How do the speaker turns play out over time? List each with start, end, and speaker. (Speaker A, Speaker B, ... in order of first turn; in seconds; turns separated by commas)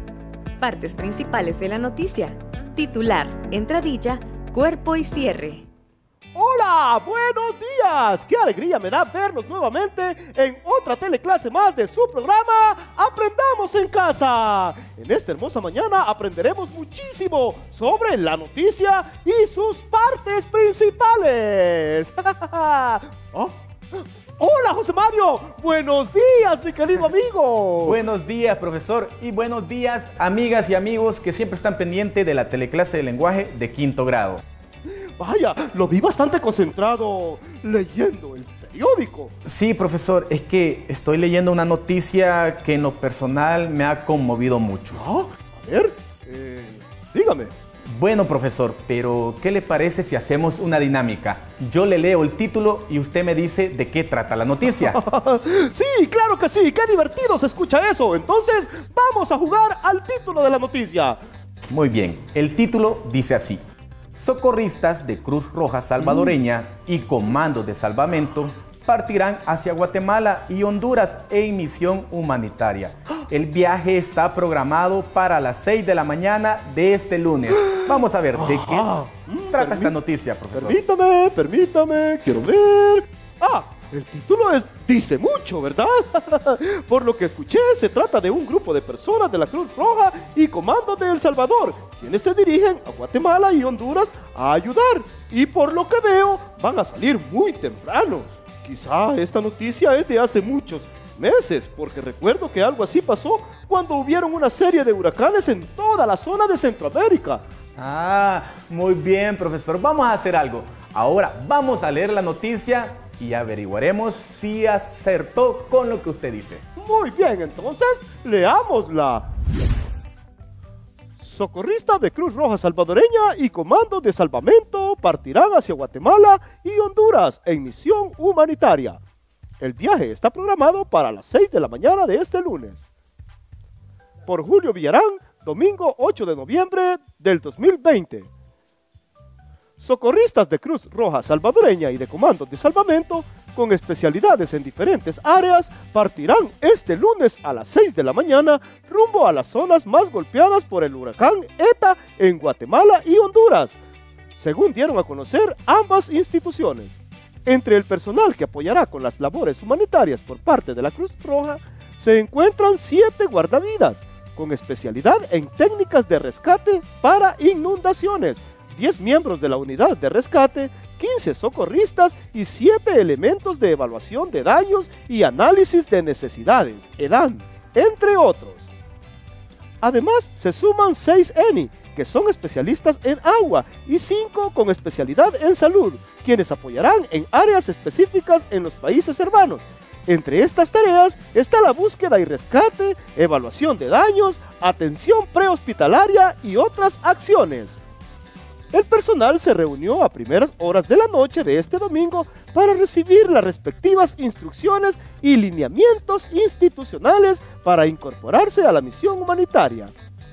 Speaker A: 0.6-5.7, Speaker B: 6.3-28.0, Speaker C: 27.8-34.4, Speaker B: 35.2-39.3, Speaker C: 39.5-45.0, Speaker B: 44.9-47.5, Speaker C: 47.9-55.0, Speaker B: 54.6-61.2, Speaker C: 61.7-63.6, Speaker C: 64.2-78.9, Speaker B: 66.0-66.3, Speaker B: 78.3-79.9, Speaker C: 79.5-80.8, Speaker B: 80.5-107.4, Speaker C: 107.8-116.6, Speaker B: 116.8-119.3, Speaker B: 121.2-129.0, Speaker B: 129.6-132.8, Speaker B: 134.3-138.3, Speaker B: 139.8-153.8, Speaker B: 154.4-178.7, Speaker B: 179.8-197.8, Speaker B: 198.7-209.9